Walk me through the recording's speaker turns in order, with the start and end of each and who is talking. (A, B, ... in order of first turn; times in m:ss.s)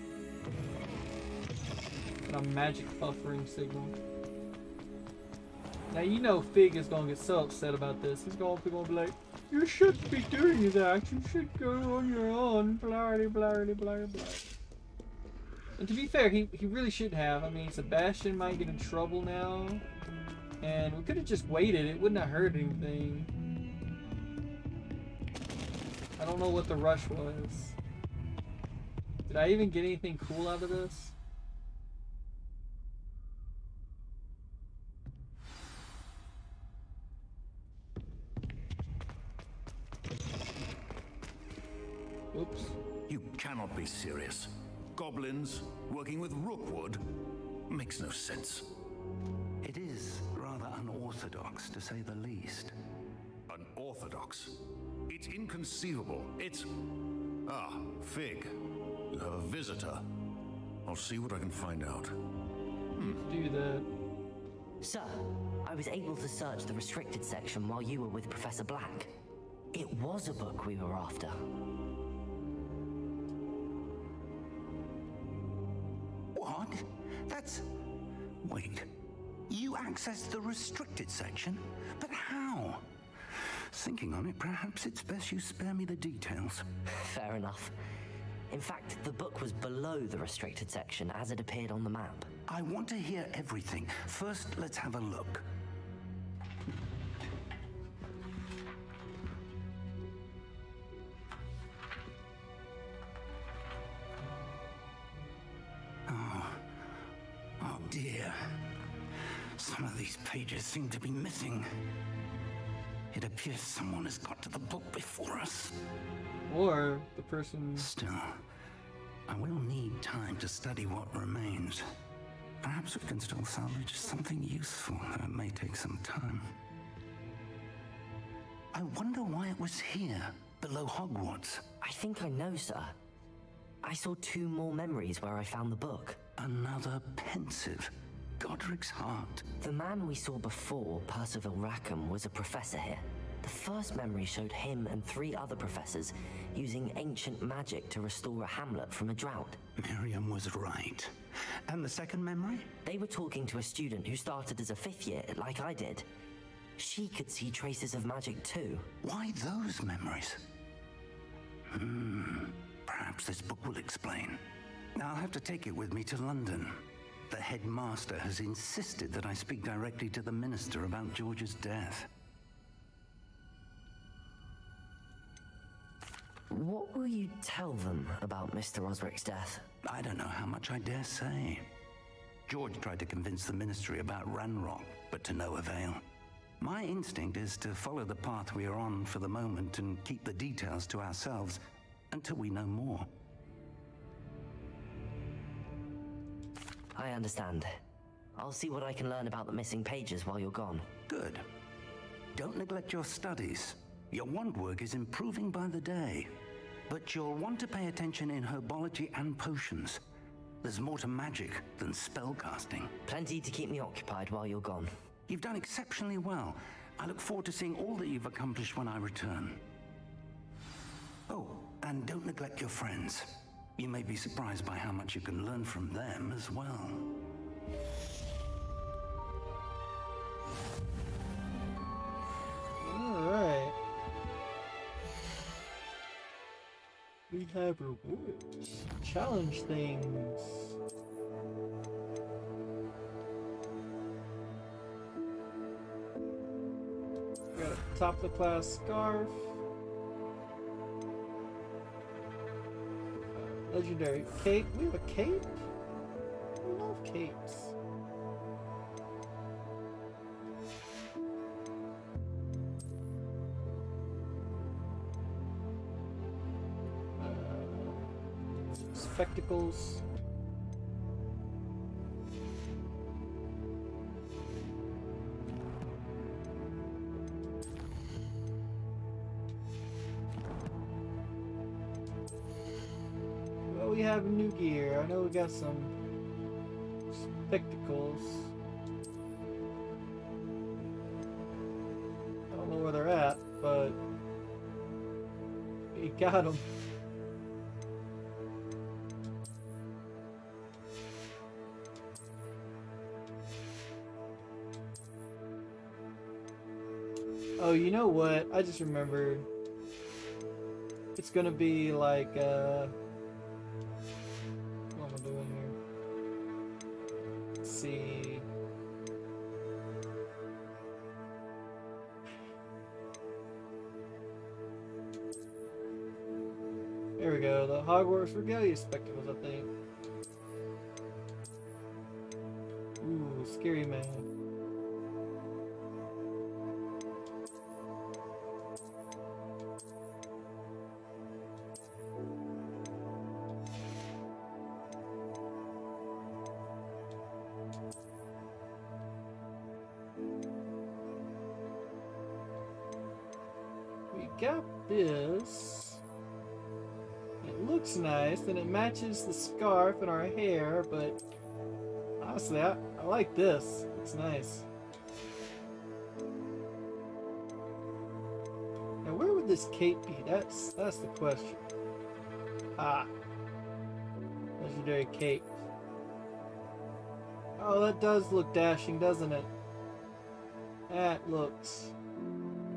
0:02.2-0:03.9 A
0:05.9-0:14.5 A
0:15.8-0:19.8 A
0:20.6-0:23.3 A
0:26.2-0:27.8 A
0:29.3-0:31.1 A
0:42.3-0:42.8 A
0:43.1-0:47.0 B
0:47.7-0:48.7 B
0:49.6-0:52.7 C
0:53.5-0:56.7 B
0:57.5-0:58.5 B
0:59.1-1:00.0 B
1:00.8-1:02.1 B
1:03.0-1:03.9 A
1:04.8-1:09.1 D
1:09.7-1:11.4 D
1:16.3-1:17.7 C
1:18.4-1:18.9 C
1:19.5-1:22.9 C
1:23.7-1:26.6 C
1:26.9-1:27.7 D
1:28.5-1:32.3 D
1:32.5-1:35.4 C
1:46.1-1:46.8 C
1:47.6-1:48.4 C
1:49.6-1:51.7 C
1:53.1-1:55.8 C
1:56.5-1:57.9 A
1:57.8-1:58.4 C
1:59.3-2:01.9 C
2:02.6-2:06.5 C
2:08.7-2:11.7 C
2:11.8-2:13.0 D
2:13.8-2:16.2 D
2:16.4-2:19.5 C
2:19.6-2:29.6 D
2:29.8-2:31.1 C
2:31.7-2:32.7 C
2:32.8-2:36.0 D
2:36.8-2:38.9 D
2:39.0-2:40.4 C
2:41.7-2:44.4 C
2:45.0-2:52.1 C
2:56.5-2:59.6 D
2:59.8-3:01.7 C
3:02.5-3:06.0 C
3:06.6-3:11.6 C
3:12.1-3:13.1 C
3:16.9-3:17.8 D
3:18.4-3:20.9 D
3:21.1-3:21.4 C
3:22.3-3:26.3 C
3:26.9-3:30.0 C
3:30.6-3:32.9 C
3:33.0-3:34.9 D
3:35.3-3:39.6 C
3:41.3-3:47.1 C
3:52.8-3:53.8 A
3:57.3-4:00.7 A
4:07.5-4:09.5 A
4:13.3-4:15.6 A
4:16.6-4:17.7 A
4:27.2-4:28.1 A
4:28.7-4:30.0 A
4:43.7-4:45.9 A
4:47.1-4:48.5 A
4:52.5-4:54.0 A
4:55.9-4:56.6 A
5:07.6-5:09.5 A
5:11.2-5:12.9 A
5:14.9-5:15.8 A
5:17.6-5:18.4 A
5:27.2-5:29.7 A
5:33.0-5:34.3 A
5:54.1-5:56.0 A
5:57.4-6:01.2 A
6:02.2-6:04.6 A
6:09.0-6:11.6 A
6:12.8-6:13.1 A
6:14.6-6:15.6 A
6:17.6-6:19.5 A
6:20.9-6:21.9 A